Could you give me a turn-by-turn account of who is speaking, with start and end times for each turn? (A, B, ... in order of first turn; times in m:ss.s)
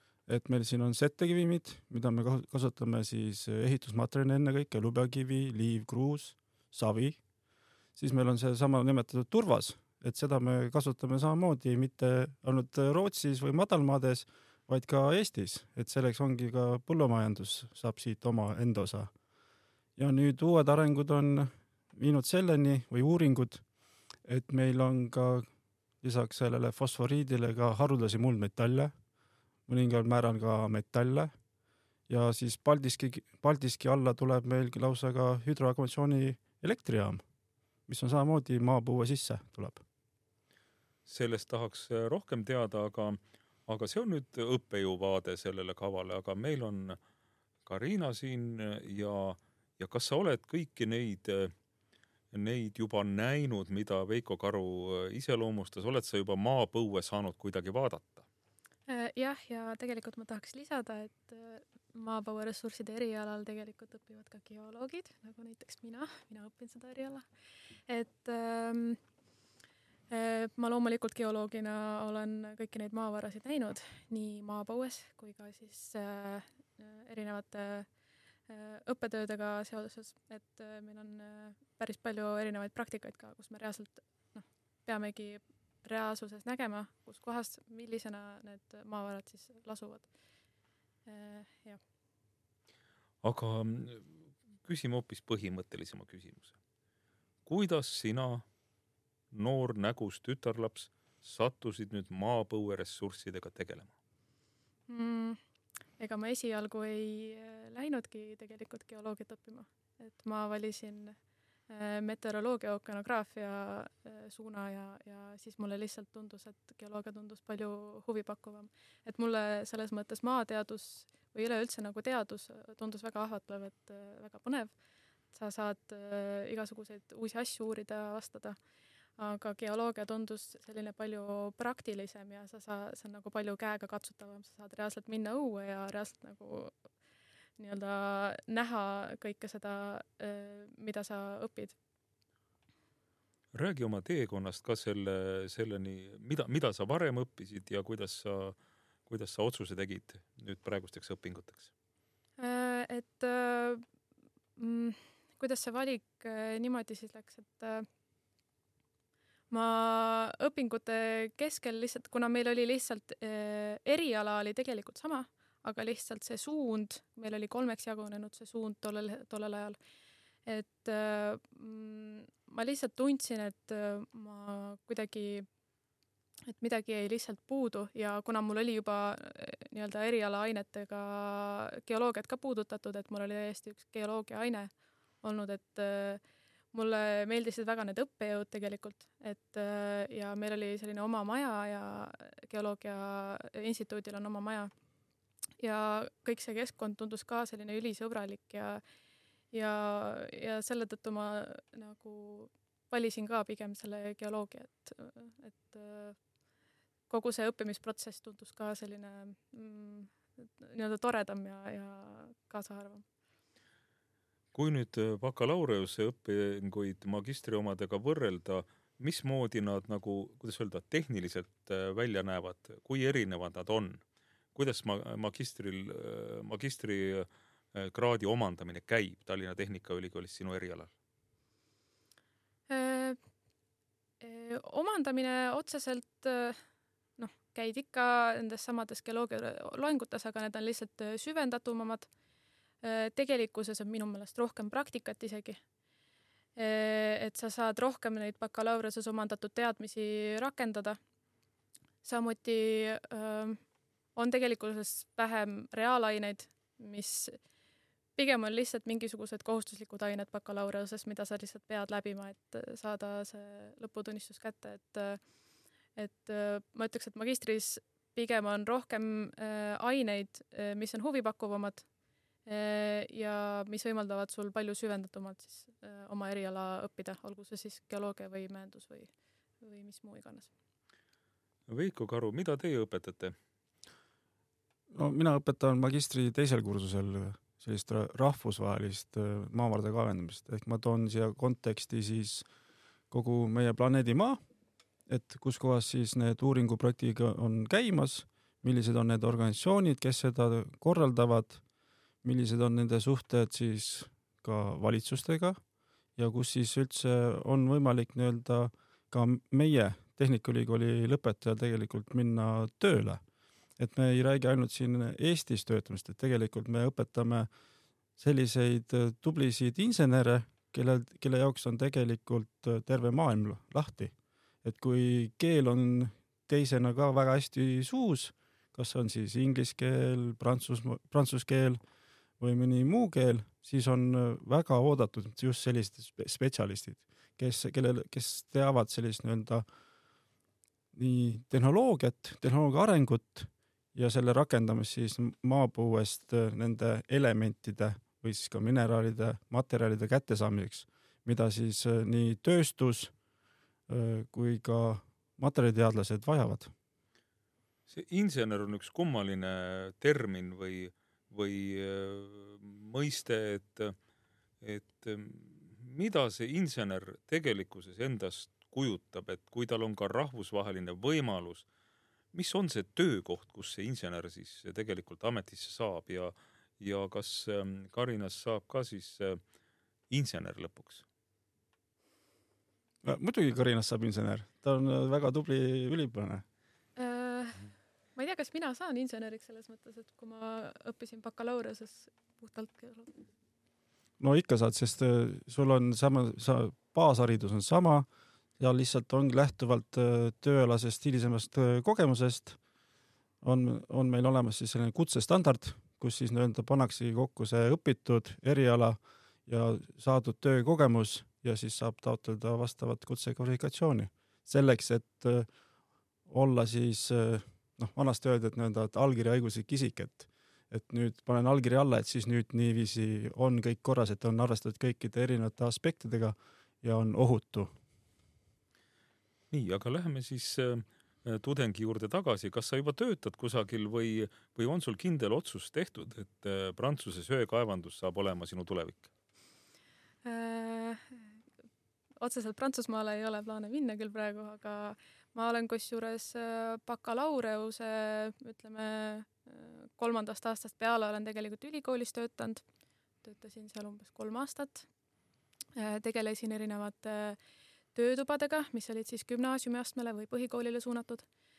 0:00.3-0:07.2 A
0:08.0-0:19.1 A
0:20.0-0:23.6 A
0:24.2-0:25.5 A
0:26.0-0:28.9 A
0:29.7-0:31.3 A
0:32.1-0:37.2 A
0:37.9-0:39.8 A
0:41.1-0:47.0 B
0:47.7-0:51.5 B
0:52.3-0:58.2 B
0:58.9-1:07.2 C
1:07.9-1:09.0 C
1:10.1-1:17.9 C
1:18.5-1:30.1 C
1:31.1-1:31.8 C
1:33.2-1:34.1 B
1:34.6-1:36.5 B
1:37.4-1:38.4 B
1:39.3-1:43.9 B
1:44.9-1:45.4 C
1:46.0-1:51.1 C
1:51.7-2:04.7 C
2:05.3-2:08.6 C
2:09.2-2:16.7 C
2:17.6-2:21.8 C
2:23.5-2:28.6 B
2:29.1-2:31.7 B
2:32.4-2:33.8 C
2:34.6-2:37.9 C
2:39.5-2:49.8 C
2:50.4-2:55.4 C
2:56.5-3:04.7 C
3:05.2-3:06.2 C
3:06.7-3:14.7 C
3:15.6-3:18.8 C
3:19.5-3:26.2 C
3:27.1-3:33.0 C
3:34.5-3:44.0 B
3:44.6-3:50.9 B
3:52.7-3:53.2 C
3:54.2-3:56.6 C
3:57.2-4:02.1 C
4:02.8-4:05.6 C
4:06.6-4:11.0 C
4:12.0-4:13.6 C
4:14.2-4:17.4 C
4:18.2-4:25.2 C
4:26.0-4:31.9 C
4:32.4-4:40.5 C
4:41.7-4:43.4 B
4:44.9-4:52.4 A
4:53.1-4:54.4 A
4:55.1-5:01.6 A
5:02.2-5:05.6 A
5:06.2-5:13.2 A
5:13.8-5:17.5 A
5:18.2-5:31.8 A
5:32.4-5:39.6 A
5:40.9-5:53.1 A
5:53.9-5:56.7 A
5:57.9-6:03.9 B
6:04.6-6:11.6 B
6:12.3-6:19.4 B
6:20.1-6:21.0 B
6:23.0-6:26.4 A
6:27.0-6:33.2 C
6:34.2-6:38.1 A
6:38.6-6:42.6 A
6:43.4-6:55.5 A
6:56.3-7:07.7 A
7:09.5-7:19.1 B
7:20.2-7:21.2 C
7:22.2-7:32.6 C
7:33.2-7:34.9 C
7:35.8-7:37.4 C
7:37.9-7:41.2 C